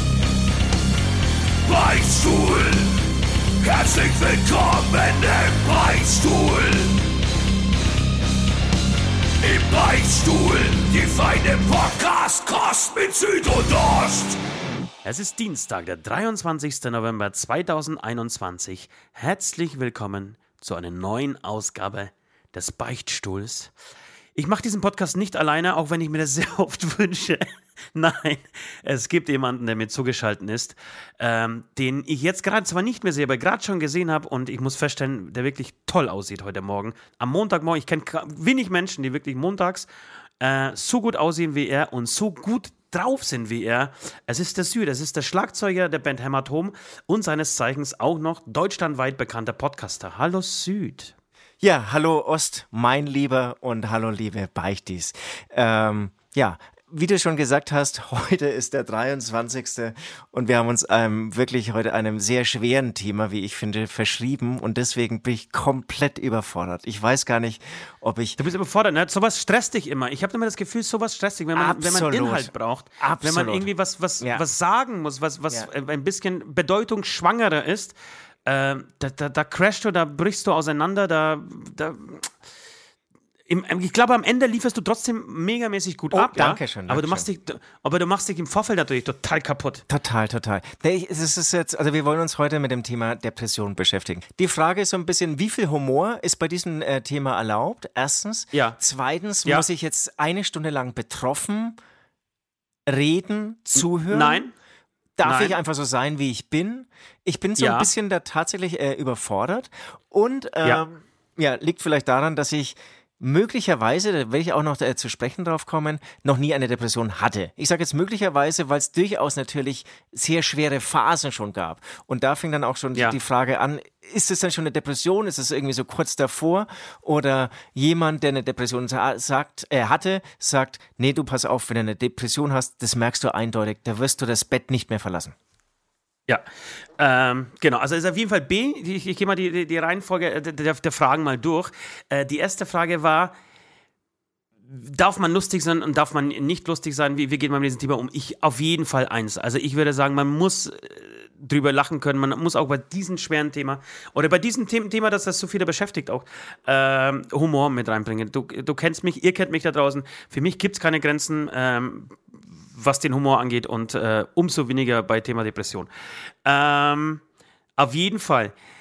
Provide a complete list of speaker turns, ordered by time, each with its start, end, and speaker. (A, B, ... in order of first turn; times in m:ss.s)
0:01.6-0:03.0 A
0:03.6-0:07.0 A
0:09.4-0:14.4 A
0:15.0-0:23.7 B
0:24.4-0:39.9 B
0:40.4-0:51.1 B
0:51.6-1:08.4 C
1:08.4-1:18.0 B
1:11.6-1:13.7 C
1:14.2-1:14.4 C
1:18.5-1:22.3 B
1:23.5-1:29.8 B
1:26.1-1:27.3 C
1:29.9-1:41.8 C
1:38.5-1:38.8 B
1:42.9-1:44.4 C
1:43.8-1:44.5 B
1:45.2-2:15.4 C
1:45.2-1:45.6 B
1:47.6-1:47.9 B
2:17.0-2:23.3 B
2:24.7-2:42.2 B
2:42.7-2:45.9 B
2:46.4-2:47.2 B
2:47.8-2:48.5 B